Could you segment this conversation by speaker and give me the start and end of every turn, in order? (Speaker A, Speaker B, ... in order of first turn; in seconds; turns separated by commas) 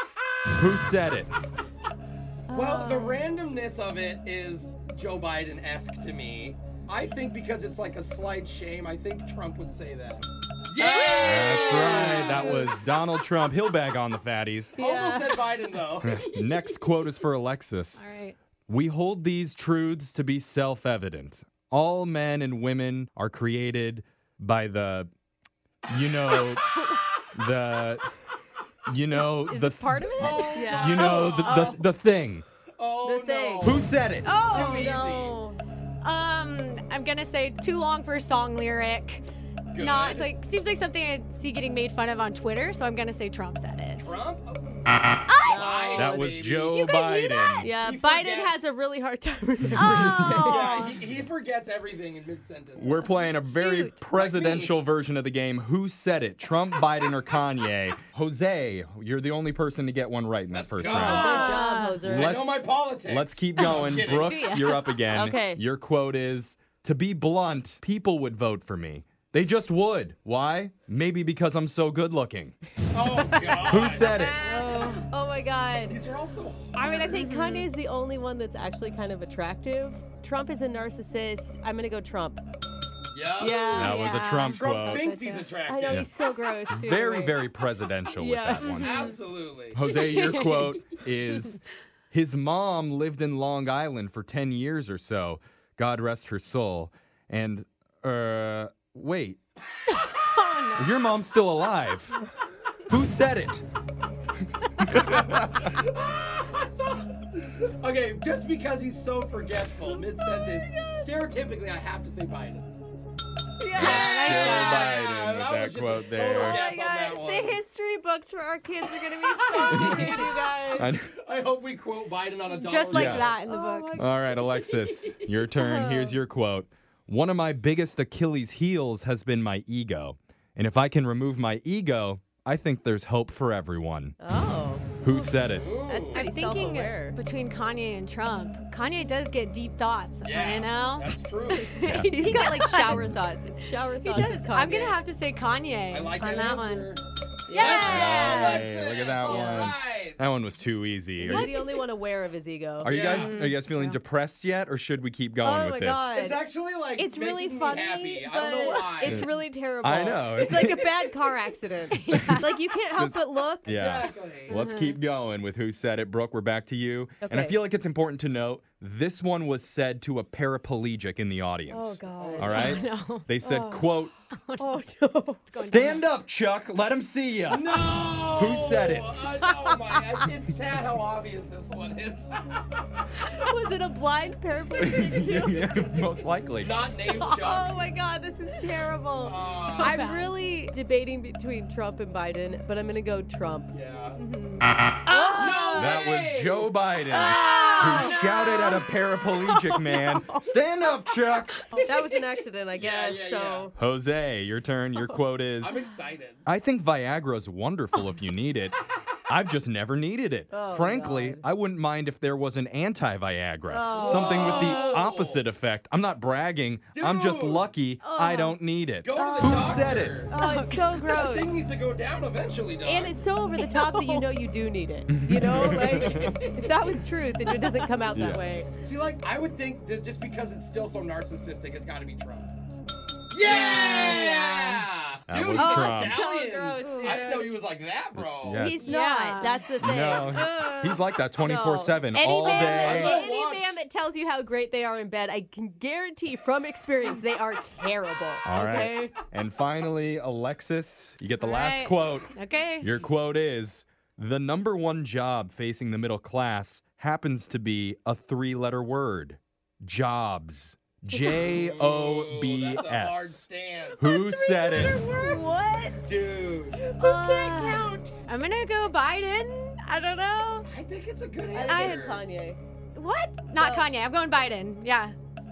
Speaker A: 0.5-1.3, Speaker B: 2.5-3.3, Speaker C: 2.5-12.7, Speaker B: 10.8-12.7, Speaker A: 11.2-14.7, Speaker B: 14.8-15.6, Speaker C: 14.8-16.2, Speaker A: 16.0-18.0, Speaker D: 18.0-18.4, Speaker A: 18.7-25.1, Speaker A: 25.9-28.1, Speaker A: 28.9-32.4, Speaker D: 29.5-31.7, Speaker B: 29.5-31.7, Speaker C: 30.1-31.8, Speaker C: 32.8-35.4, Speaker B: 33.0-33.8, Speaker A: 33.6-34.4, Speaker D: 34.2-34.9, Speaker B: 34.5-35.6, Speaker D: 36.0-39.2, Speaker C: 39.7-40.3, Speaker D: 39.7-44.1, Speaker C: 44.0-46.8, Speaker D: 45.3-45.9, Speaker B: 45.4-46.3, Speaker A: 45.9-47.7, Speaker D: 46.9-47.6, Speaker B: 47.5-50.9, Speaker C: 47.6-48.7, Speaker A: 49.7-50.3, Speaker D: 49.7-50.9, Speaker C: 50.3-53.1, Speaker A: 52.8-61.5, Speaker D: 53.1-53.9, Speaker C: 54.1-54.7, Speaker C: 60.5-61.5, Speaker B: 60.8-62.6, Speaker D: 60.9-62.0, Speaker A: 62.0-72.5, Speaker C: 62.1-64.4, Speaker D: 64.0-65.0, Speaker B: 65.1-65.6, Speaker C: 72.9-75.1, Speaker A: 73.6-74.4, Speaker B: 73.8-76.0, Speaker D: 74.4-75.0, Speaker C: 75.9-77.1, Speaker B: 76.7-82.4, Speaker D: 77.1-77.7, Speaker C: 83.1-86.1, Speaker B: 83.4-84.2, Speaker D: 83.7-85.5, Speaker A: 83.7-85.1, Speaker B: 85.4-87.4, Speaker A: 86.7-89.1, Speaker B: 88.1-89.1, Speaker C: 88.7-89.8, Speaker A: 89.7-91.6, Speaker D: 89.8-90.8, Speaker A: 92.1-99.4, Speaker D: 99.9-101.1, Speaker A: 100.8-102.2, Speaker A: 102.8-103.6, Speaker A: 104.8-105.4, Speaker C: 105.1-106.7, Speaker C: 107.3-112.7, Speaker B: 113.6-114.5, Speaker A: 113.7-116.6, Speaker D: 113.8-115.1, Speaker C: 113.8-117.6, Speaker B: 116.3-121.0, Speaker C: 119.4-120.5, Speaker A: 119.7-120.2, Speaker A: 120.8-121.1, Speaker C: 121.0-123.3, Speaker D: 122.5-124.0, Speaker A: 122.9-123.3, Speaker B: 123.4-126.2, Speaker A: 124.0-134.1, Speaker B: 134.2-137.2, Speaker A: 135.0-135.8, Speaker C: 135.5-136.3, Speaker D: 136.1-143.1, Speaker C: 140.2-141.8, Speaker A: 141.8-142.1, Speaker B: 142.1-145.0, Speaker A: 142.9-143.1, Speaker D: 143.9-146.9, Speaker C: 145.9-150.2, Speaker B: 147.5-148.7, Speaker D: 147.5-148.6, Speaker A: 147.7-151.6, Speaker B: 149.2-149.7, Speaker B: 151.2-153.9, Speaker D: 151.3-151.7, Speaker A: 152.8-156.1, Speaker C: 152.8-153.4, Speaker D: 153.1-153.6, Speaker B: 155.4-156.4, Speaker C: 156.1-159.3, Speaker B: 157.0-163.7, Speaker D: 158.5-158.8, Speaker A: 159.0-159.3, Speaker A: 159.8-160.9, Speaker D: 161.9-162.4, Speaker A: 162.1-162.4, Speaker A: 162.9-174.1, Speaker C: 163.7-164.6, Speaker D: 164.5-165.0, Speaker B: 167.2-167.6, Speaker B: 171.7-172.8, Speaker C: 172.2-172.7, Speaker D: 172.4-173.3, Speaker B: 173.4-173.9, Speaker D: 174.3-174.8, Speaker B: 174.6-175.5, Speaker D: 175.5-176.0, Speaker A: 175.5-179.2, Speaker C: 177.5-182.5, Speaker B: 183.2-186.1, Speaker A: 184.8-186.8, Speaker C: 186.6-187.8, Speaker B: 186.9-193.7, Speaker C: 189.2-190.0, Speaker D: 189.7-190.3, Speaker C: 193.7-194.2, Speaker D: 194.2-196.0, Speaker B: 195.1-195.7, Speaker C: 195.3-196.7, Speaker A: 195.7-201.6, Speaker D: 197.1-200.4, Speaker B: 197.3-198.6, Speaker D: 201.5-202.2, Speaker B: 201.7-203.7, Speaker C: 202.7-203.7, Speaker A: 203.8-205.8, Speaker C: 205.6-206.4, Speaker A: 206.4-208.8, Speaker A: 209.3-220.3, Speaker B: 210.5-211.4, Speaker B: 213.7-215.0, Speaker C: 214.0-215.4, Speaker C: 216.9-217.7, Speaker D: 218.0-218.6, Speaker C: 219.0-223.2, Speaker B: 219.2-221.6, Speaker D: 220.3-221.1, Speaker B: 222.8-228.7, Speaker D: 223.5-224.3, Speaker A: 225.1-226.4, Speaker C: 225.7-227.0, Speaker D: 227.5-227.9, Speaker A: 228.1-228.4, Speaker C: 228.8-232.5, Speaker C: 233.3-238.7, Speaker B: 233.4-234.8, Speaker D: 233.5-234.3, Speaker A: 235.3-236.2, Speaker B: 235.5-237.6, Speaker D: 236.8-237.4, Speaker A: 238.3-238.8, Speaker B: 238.5-240.4, Speaker D: 238.8-239.6, Speaker A: 239.8-243.3, Speaker D: 240.2-241.0, Speaker B: 241.4-249.1, Speaker C: 242.5-243.7, Speaker A: 248.4-263.4, Speaker D: 251.4-252.9, Speaker C: 261.3-264.1, Speaker A: 264.0-265.0, Speaker D: 264.4-266.0, Speaker B: 264.5-265.4, Speaker C: 266.0-266.9, Speaker B: 266.8-268.1, Speaker D: 267.0-270.7, Speaker C: 270.6-272.2, Speaker B: 271.5-272.6, Speaker D: 271.6-272.1, Speaker D: 272.9-275.1, Speaker B: 273.6-273.9